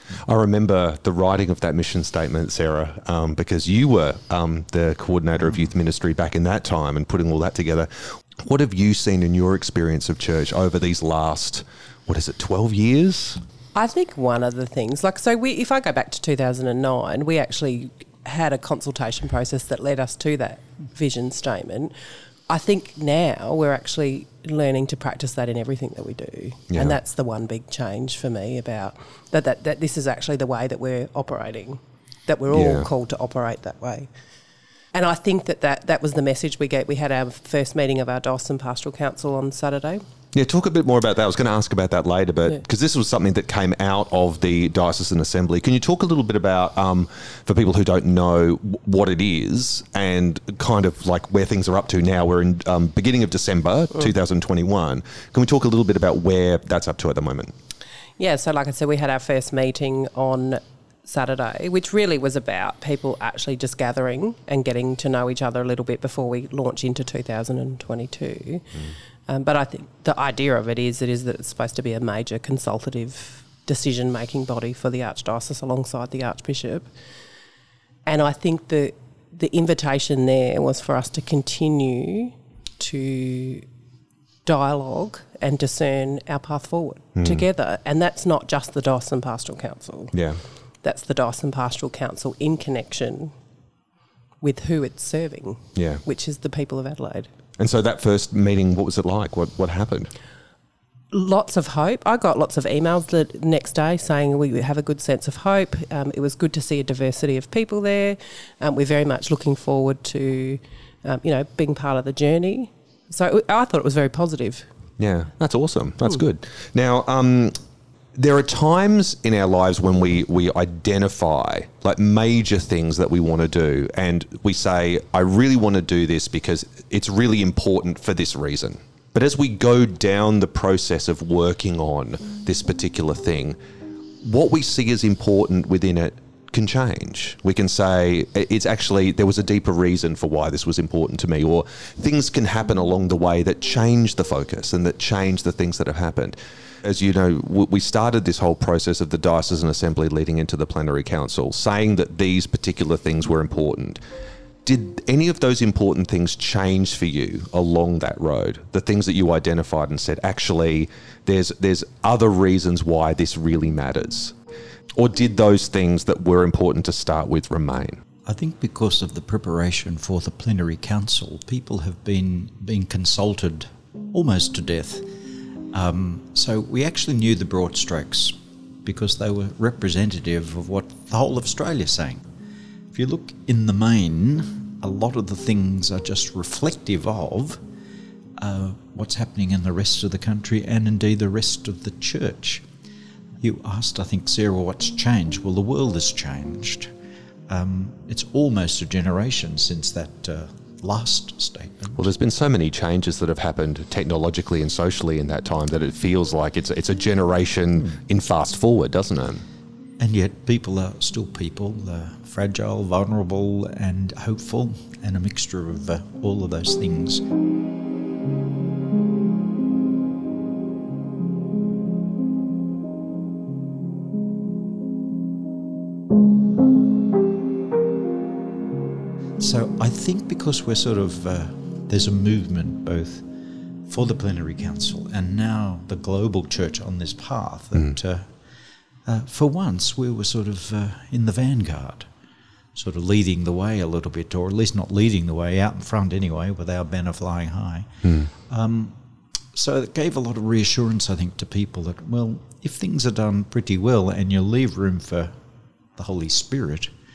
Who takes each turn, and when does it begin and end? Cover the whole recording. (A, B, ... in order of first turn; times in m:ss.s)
0:00.3-0:13.4 A
0:13.7-0:22.0 B
0:22.5-0:34.2 B
0:26.7-0:27.0 A
0:32.5-0:32.9 A
0:34.9-0:40.0 B
0:40.3-0:57.5 A
0:58.2-1:17.2 B
1:18.0-1:23.6 B
1:24.4-1:30.1 B
1:27.1-1:27.5 A
1:30.1-1:30.4 A
1:30.8-1:33.3 B
1:34.4-1:37.3 B
1:35.7-1:36.0 A
1:37.6-1:40.1 A
1:41.1-1:54.7 B
1:55.0-1:57.6 A
1:58.1-2:13.6 A
2:14.2-2:34.0 A
2:34.6-2:44.3 A
2:45.0-2:48.0 A
2:48.2-2:55.1 C
2:55.7-3:02.2 C
3:02.9-3:07.6 C
3:08.4-3:12.6 C
3:13.4-3:16.9 C
3:17.5-3:22.1 C
3:22.0-3:29.4 A
3:30.0-3:37.2 C
3:49.4-3:53.3 C
3:53.8-3:58.3 C
3:59.0-4:02.1 C
4:02.7-4:09.0 C
4:08.0-4:08.3 A
4:09.5-4:15.3 C
4:16.0-4:16.9 C